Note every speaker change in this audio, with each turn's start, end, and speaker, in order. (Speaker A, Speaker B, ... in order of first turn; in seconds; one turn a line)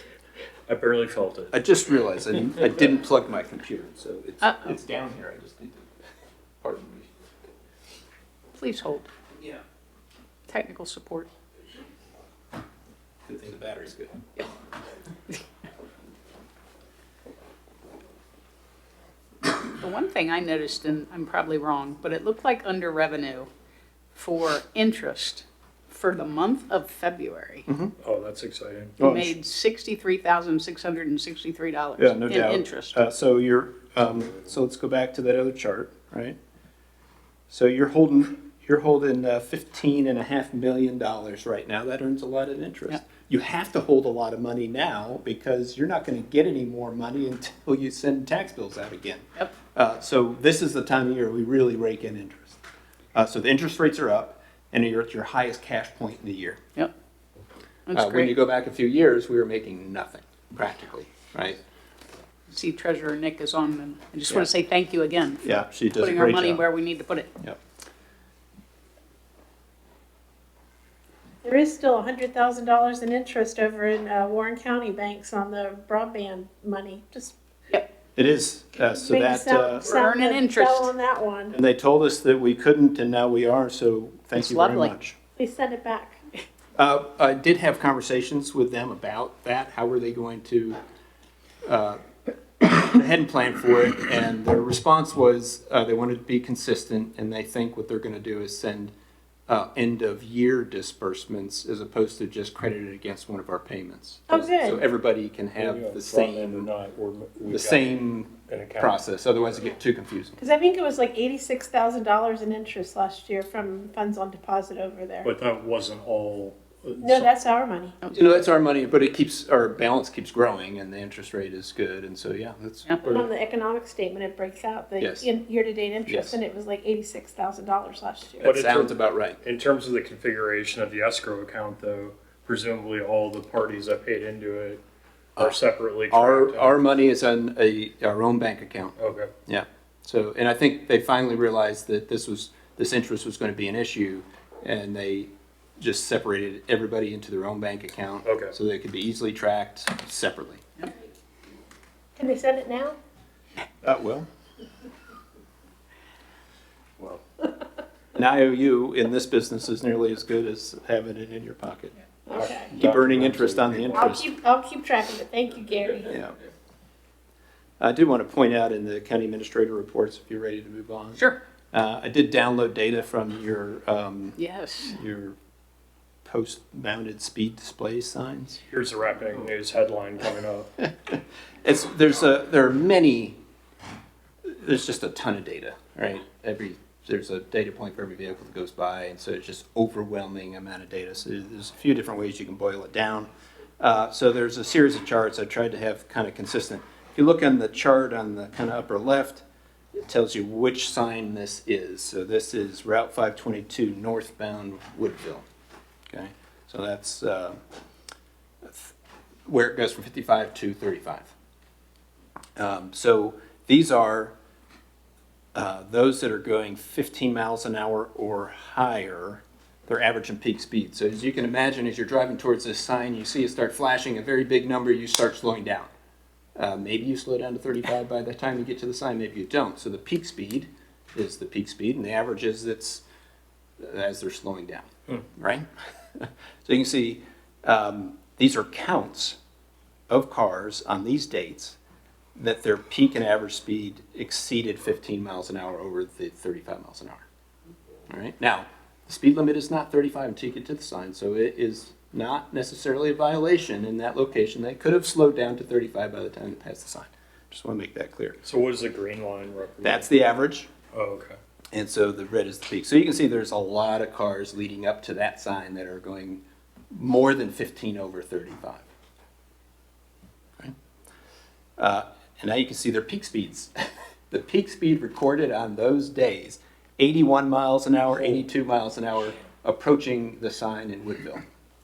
Speaker A: 0.7-1.5
Speaker B: 1.5-5.8
Speaker C: 4.4-4.7
Speaker B: 6.6-7.1
Speaker C: 8.5-9.1
Speaker C: 10.5-11.3
Speaker B: 13.3-14.2
Speaker C: 19.8-23.5
Speaker C: 24.1-27.7
Speaker B: 27.7-27.9
Speaker A: 28.0-28.9
Speaker B: 29.0-29.3
Speaker C: 29.0-33.0
Speaker B: 32.0-36.4
Speaker B: 37.5-52.6
Speaker B: 53.1-56.6
Speaker C: 57.9-58.3
Speaker B: 57.9-61.6
Speaker C: 62.5-65.4
Speaker B: 65.4-66.7
Speaker C: 66.0-67.3
Speaker D: 71.4-77.3
Speaker B: 78.2-79.9
Speaker D: 78.9-81.6
Speaker C: 79.8-80.9
Speaker B: 81.5-85.2
Speaker C: 84.4-84.9
Speaker D: 85.4-86.2
Speaker B: 86.8-90.8
Speaker B: 91.6-92.0
Speaker B: 92.6-98.9
Speaker B: 99.5-106.7
Speaker D: 104.3-104.8
Speaker A: 105.6-109.0
Speaker B: 107.5-110.4
Speaker D: 110.4-115.3
Speaker A: 115.3-117.3
Speaker D: 117.0-118.0
Speaker B: 118.1-123.3
Speaker D: 123.1-128.5
Speaker B: 125.0-125.3
Speaker B: 126.1-126.4
Speaker B: 128.4-129.4
Speaker A: 128.5-134.8
Speaker A: 135.4-136.8
Speaker B: 136.1-150.6
Speaker A: 139.0-139.3
Speaker A: 148.2-148.5
Speaker D: 152.2-153.0
Speaker B: 153.8-154.3
Speaker B: 158.2-161.9
Speaker D: 162.3-162.7
Speaker A: 162.4-163.9
Speaker B: 162.7-164.3
Speaker D: 163.9-166.2
Speaker B: 166.1-166.3
Speaker B: 167.8-175.4
Speaker C: 174.4-175.0
Speaker B: 176.2-178.6
Speaker A: 178.7-180.7
Speaker B: 180.8-183.4
Speaker B: 184.5-193.3
Speaker B: 193.8-199.4
Speaker B: 200.0-205.4
Speaker B: 206.1-207.6
Speaker B: 208.6-208.9
Speaker B: 209.5-211.3
Speaker B: 212.6-214.4
Speaker B: 215.6-225.9
Speaker B: 226.6-233.0
Speaker B: 233.8-235.7
Speaker B: 236.2-239.4
Speaker B: 240.1-241.8
Speaker B: 242.4-247.2
Speaker B: 248.1-258.4
Speaker A: 258.4-260.1
Speaker B: 259.8-260.7
Speaker A: 260.9-261.4
Speaker B: 261.7-268.8
Speaker B: 271.8-273.7
Speaker B: 274.3-281.4